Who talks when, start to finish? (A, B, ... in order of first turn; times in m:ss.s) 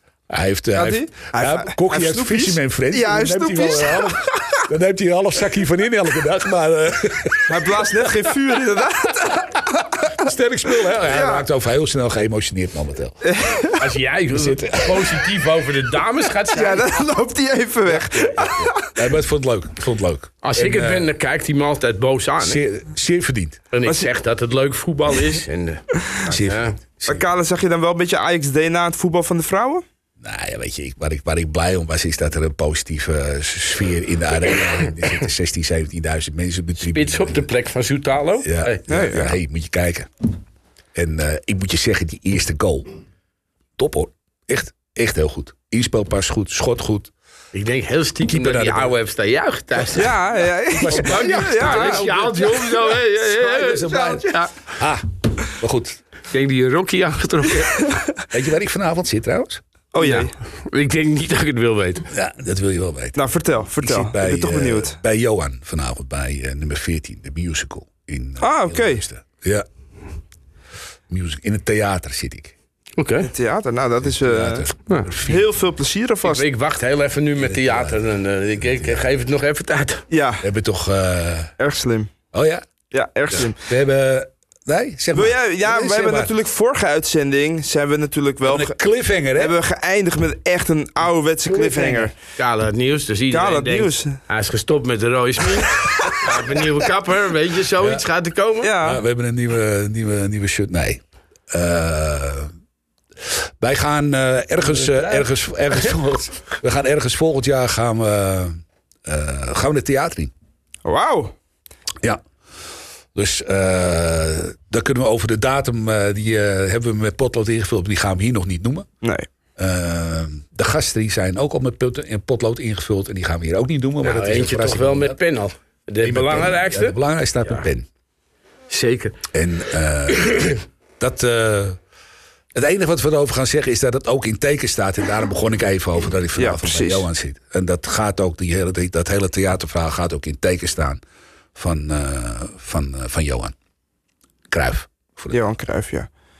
0:00.3-0:08.4 A
0:00.7-0:04.6 B
0:07.5-0:10.1 B
0:09.0-0:13.2 A
0:11.1-0:11.4 B
0:13.2-0:13.8 B
0:13.8-0:16.8 C
0:14.3-0:15.4 A
0:16.5-0:19.1 B
0:18.0-0:21.1 A
0:20.4-0:22.6 C
0:22.4-0:23.6 A
0:23.7-0:26.8 C
0:26.3-0:27.2 A
0:27.0-0:29.8 B
0:30.2-0:37.5 A
0:36.8-0:38.8 C
0:38.4-0:40.1 A
0:38.9-0:39.4 B
0:40.9-0:42.9 A
0:43.8-0:47.1 A
0:47.5-0:50.1 C
0:48.3-0:48.9 A
0:49.9-0:52.0 B
0:50.7-0:56.0 A
0:50.9-0:54.5 C
0:56.3-0:58.0 C
0:57.6-0:58.2 B
0:58.3-0:59.6 A
0:59.9-1:00.3 B
1:00.0-1:02.1 C
1:02.1-1:03.2 A
1:03.2-1:05.0 B
1:03.7-1:09.6 A
1:08.4-1:09.0 B
1:11.1-1:12.5 A
1:13.0-1:13.3 C
1:13.2-1:16.4 B
1:14.0-1:15.5 A
1:16.2-1:20.0 C
1:17.4-1:18.0 A
1:18.6-1:19.1 A
1:20.1-1:20.4 B
1:20.4-1:21.5 A
1:21.6-1:22.1 B
1:22.3-1:22.7 A
1:22.9-1:23.6 B
1:23.3-1:26.3 A
1:25.1-1:28.8 B
1:28.4-1:29.6 A
1:29.4-1:32.1 B
1:31.5-1:38.7 C
1:33.3-1:34.2 B
1:37.8-1:38.0 A
1:38.6-1:39.0 B
1:38.8-1:42.5 A
1:43.2-1:50.3 A
1:50.8-1:51.3 B
1:53.1-1:58.9 A
1:59.6-2:05.2 A
2:04.0-2:07.0 C
2:06.0-2:07.8 A
2:08.7-2:09.2 C
2:09.3-2:11.8 A
2:10.1-2:10.6 C
2:12.5-2:21.0 A
2:16.4-2:17.0 B
2:21.5-2:23.5 A
2:24.5-2:25.4 A
2:25.3-2:26.1 B